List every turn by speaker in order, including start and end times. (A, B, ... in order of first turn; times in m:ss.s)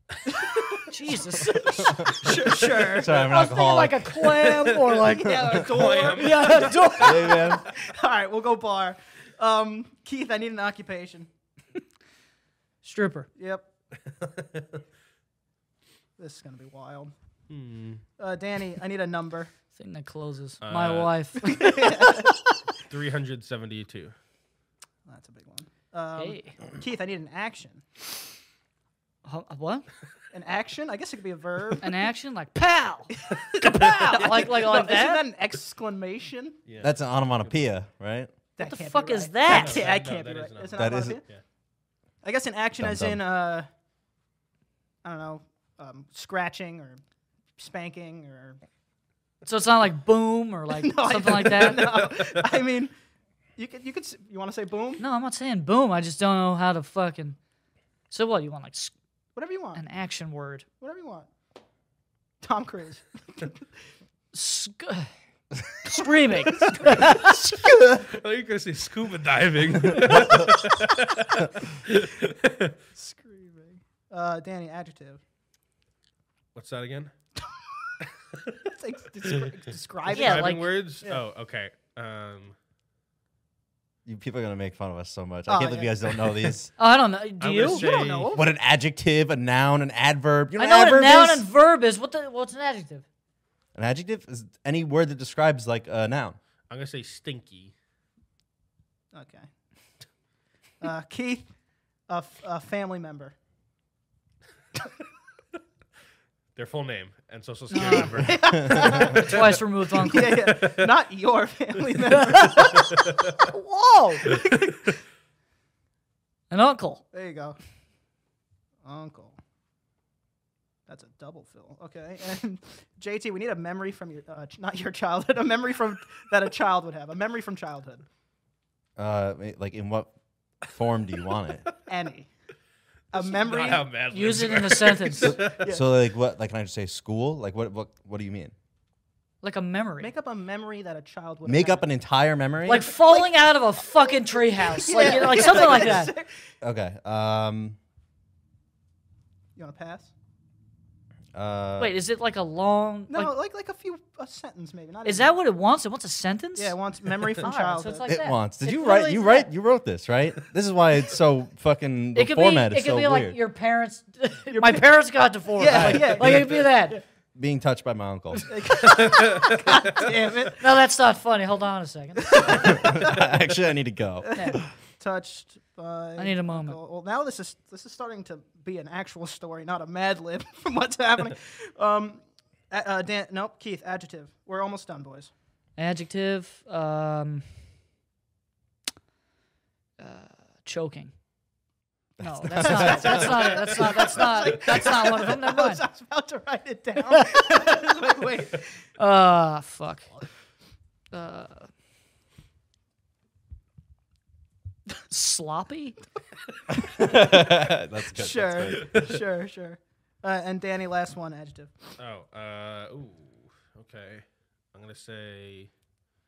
0:00.3-0:03.3 A
0:00.9-0:02.1 B
0:01.8-0:04.4 C
0:02.9-0:07.6 B
0:04.2-0:06.9 D
0:05.2-0:11.3 A
0:07.0-0:07.6 C
0:12.8-0:13.3 B
0:13.4-0:13.7 A
0:14.1-0:14.8 D
0:16.2-0:17.1 A
0:17.5-0:18.0 D
0:18.2-0:19.5 A
0:19.7-0:22.2 B
0:20.6-0:21.2 D
0:21.4-0:22.4 A
0:22.8-0:24.1 D
0:25.1-0:27.8 A
0:26.2-0:26.6 B
0:29.2-0:29.9 B
0:30.3-0:31.9 A
0:31.8-0:35.2 B
0:33.3-0:36.6 A
0:36.6-0:37.6 D
0:36.8-0:38.3 C
0:38.6-0:41.2 A
0:38.6-0:39.9 B
0:39.4-0:41.4 D
0:40.7-0:41.2 C
0:42.2-0:43.7 A
0:42.8-0:43.2 C
0:45.0-0:47.0 A
0:47.6-0:48.6 A
0:49.4-0:52.1 B
0:50.7-0:52.9 A
0:52.1-0:52.5 D
0:53.6-0:55.0 A
0:55.0-0:57.4 B
0:58.1-0:58.9 B
0:59.4-0:59.8 A
0:59.7-1:00.6 B
1:00.8-1:01.3 A
1:02.4-1:03.6 A
1:04.3-1:05.1 B
1:05.8-1:07.6 B
1:07.9-1:12.7 D
1:10.0-1:10.5 C
1:12.9-1:15.2 A
1:16.5-1:17.1 D
1:18.6-1:21.2 A
1:20.0-1:22.5 D
1:20.1-1:20.7 B
1:24.0-1:26.7 C
1:25.5-1:26.4 A
1:26.8-1:27.8 B
1:27.4-1:28.3 D
1:27.5-1:28.4 A
1:28.3-1:31.5 C
1:30.6-1:33.0 B
1:33.7-1:36.4 C
1:36.7-1:37.7 D
1:39.1-1:39.5 A
1:40.8-1:41.5 A
1:42.1-1:43.3 A
1:46.6-1:49.6 D
1:47.7-1:50.6 B
1:48.2-1:52.9 A
1:50.3-1:50.9 D
1:52.1-1:54.4 B
1:52.7-1:53.0 D
1:54.4-1:54.8 A
1:56.5-1:57.0 B
1:57.1-1:57.6 A
1:58.8-1:59.4 A
2:00.9-2:08.0 A
2:09.0-2:10.1 C
2:10.6-2:11.6 C
2:11.8-2:12.3 A
2:13.1-2:13.9 A
2:13.2-2:15.6 D
2:14.1-2:15.4 B
2:15.2-2:18.5 C
2:15.3-2:15.8 A
2:19.4-2:20.1 B
2:20.0-2:21.8 A
2:21.4-2:22.9 C
2:22.6-2:26.1 B
2:22.8-2:23.3 A
2:24.6-2:26.4 A
2:26.6-2:27.8 C
2:29.6-2:30.1 A
2:31.3-2:32.0 C
2:31.8-2:33.3 B
2:33.1-2:35.3 A
2:35.0-2:39.5 B
2:36.6-2:38.1 A
2:38.0-2:43.4 C
2:42.1-2:47.0 B
2:44.5-2:44.9 A
2:45.5-2:47.0 A
2:45.7-2:46.7 C
2:47.3-2:48.5 C
2:48.4-2:50.6 A
2:48.8-2:49.6 D
2:50.6-2:53.1 B
2:52.3-2:53.2 A
2:52.4-2:54.5 C
2:54.2-3:05.3 A
2:54.3-2:54.6 B
2:56.2-2:56.8 B
3:05.8-3:07.5 B
3:10.0-3:11.1 B
3:12.2-3:15.8 B
3:12.2-3:13.5 C
3:12.5-3:18.7 A
3:17.1-3:17.7 B
3:19.0-3:20.1 B
3:21.1-3:21.7 B
3:25.1-3:26.0 B
3:26.7-3:29.0 C
3:28.1-3:31.7 A
3:32.0-3:35.7 D